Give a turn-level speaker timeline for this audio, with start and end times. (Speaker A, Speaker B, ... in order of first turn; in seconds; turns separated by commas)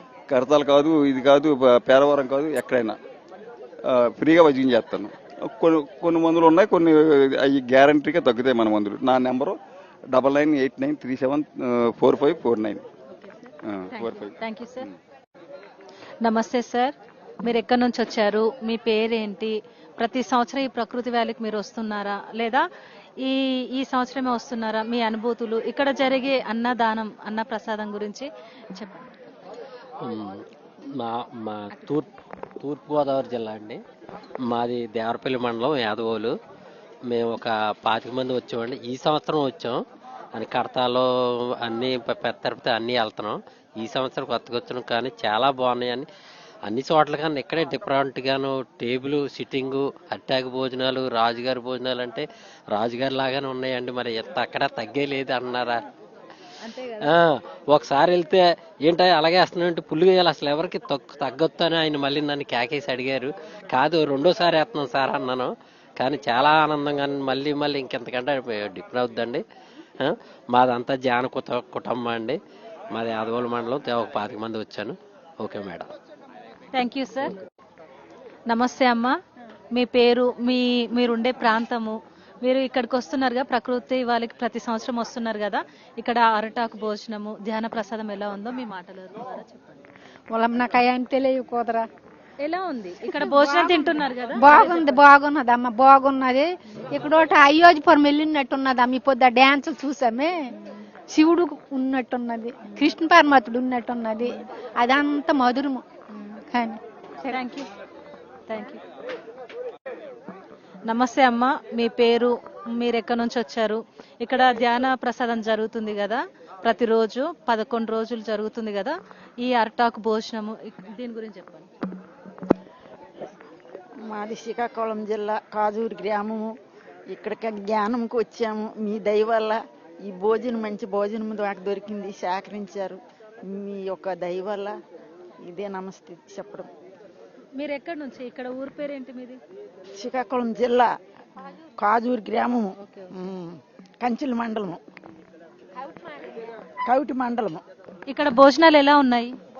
Speaker A: 0.3-3.0, Speaker A: 3.9-9.6, Speaker A: 10.1-12.8, Speaker B: 13.1-14.9, Speaker A: 13.7-14.3, Speaker B: 16.2-22.6, Speaker B: 23.2-29.1, Speaker C: 30.0-30.4, Speaker C: 30.9-32.1, Speaker C: 32.6-33.8, Speaker C: 34.5-36.3, Speaker C: 37.1-39.8, Speaker C: 40.4-46.1, Speaker C: 46.7-55.8, Speaker B: 56.6-57.1, Speaker C: 57.0-69.4, Speaker C: 70.0-72.4, Speaker C: 72.9-75.9, Speaker B: 76.7-77.3, Speaker B: 78.5-79.1, Speaker B: 79.7-89.8, Speaker D: 90.3-91.9, Speaker B: 92.4-95.0, Speaker D: 93.1-100.4, Speaker D: 101.1-105.8, Speaker D: 106.5-106.8, Speaker B: 107.2-107.7, Speaker B: 108.5-108.8, Speaker B: 110.9-121.7, Speaker E: 124.1-126.5, Speaker E: 127.1-134.8, Speaker E: 135.5-136.7, Speaker B: 137.6-139.4, Speaker E: 140.0-140.9, Speaker E: 141.8-144.8, Speaker E: 146.9-147.6, Speaker B: 148.1-149.3